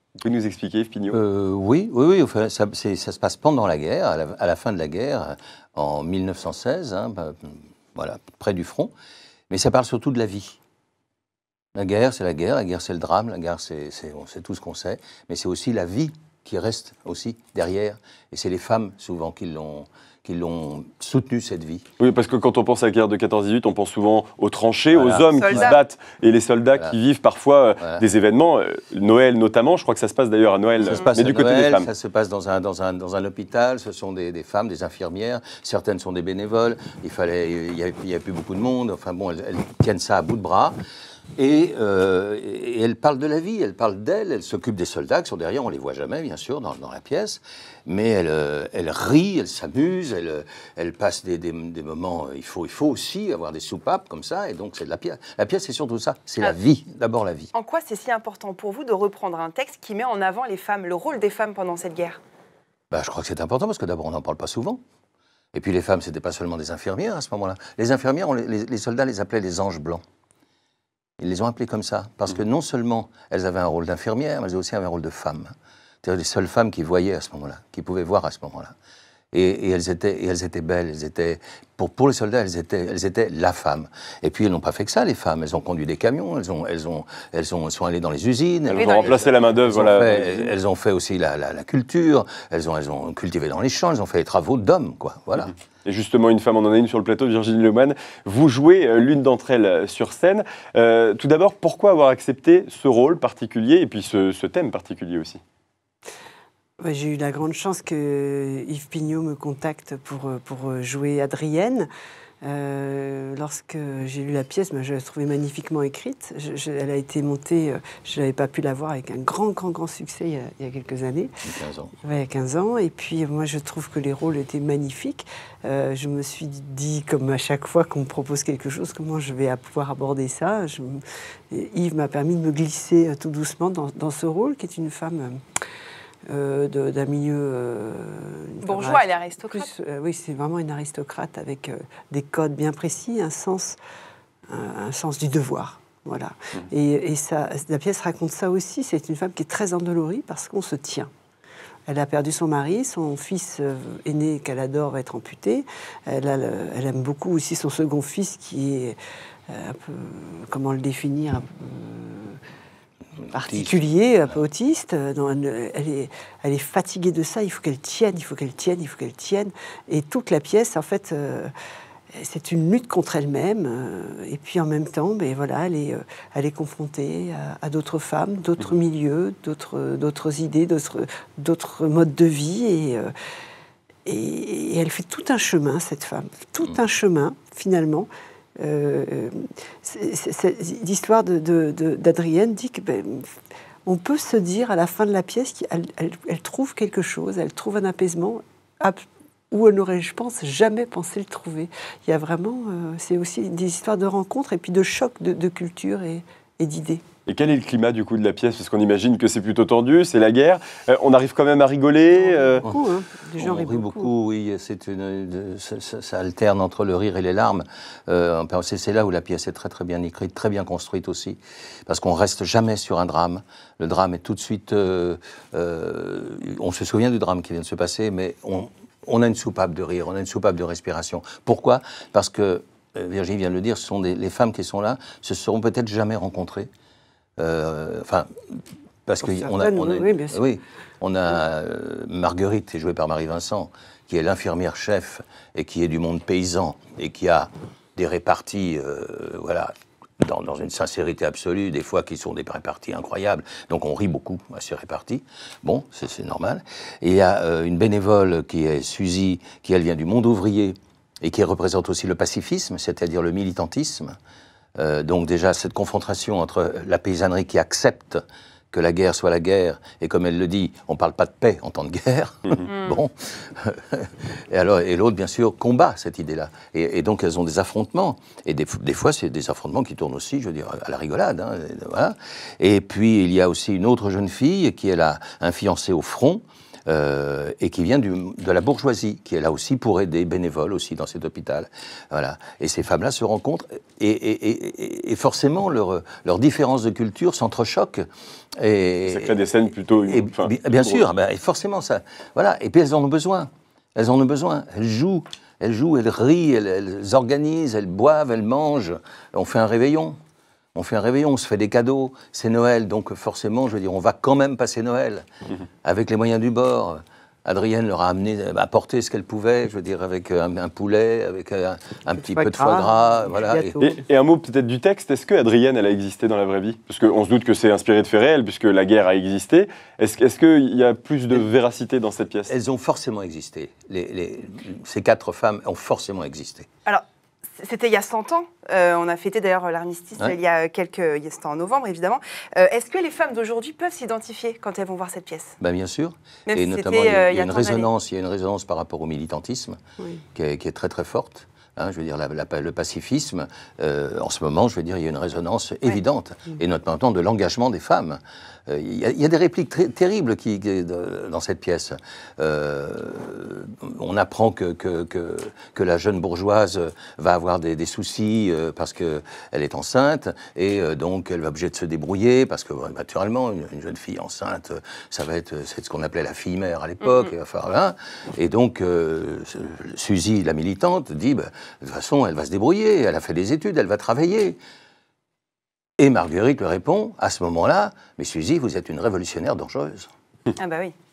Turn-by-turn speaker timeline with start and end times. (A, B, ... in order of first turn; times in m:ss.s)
0:00.2-0:01.2 A
0:01.1-0:08.9 B
0:09.5-0:10.6 B
0:11.7-0:21.8 B
0:22.0-0:31.9 A
0:24.9-0:25.8 B
0:25.4-0:25.8 C
0:30.8-0:40.8 B
0:41.4-0:57.5 B
0:57.5-1:02.2 C
1:02.9-1:04.8 B
1:05.5-1:10.0 B
1:11.2-1:15.5 B
1:16.0-1:18.7 B
1:19.3-1:35.5 B
1:28.7-1:30.5 A
1:28.7-1:29.1 C
1:35.8-1:45.4 A
1:46.8-1:51.9 D
1:52.4-2:01.4 D
2:01.4-2:01.9 B
2:02.0-2:15.4 D
2:16.3-2:23.8 D
2:18.6-2:19.7 C
2:24.5-2:31.1 D
2:31.9-2:39.0 D
2:39.5-2:42.4 D
2:43.3-2:51.5 D
2:43.5-2:43.8 B
2:52.1-3:03.1 D
3:04.0-3:13.3 D
3:13.8-3:27.0 D
3:27.3-3:32.6 A
3:32.1-3:34.1 D
3:33.4-3:56.7 B
3:57.4-4:24.2 B
3:59.2-4:00.4 D
4:24.8-4:58.0 B
4:32.6-4:33.0 C
4:58.6-4:59.4 B
4:59.1-5:01.0 A
5:00.0-5:10.2 B
5:10.7-5:15.2 B
5:15.8-5:23.8 B
5:22.2-5:24.0 D
5:23.8-5:32.5 A
5:32.5-5:36.7 B
5:37.6-5:45.6 C
5:45.6-5:49.8 B
5:46.5-5:47.9 C
5:50.3-6:24.6 B
6:26.0-6:30.1 B
6:30.6-6:30.9 C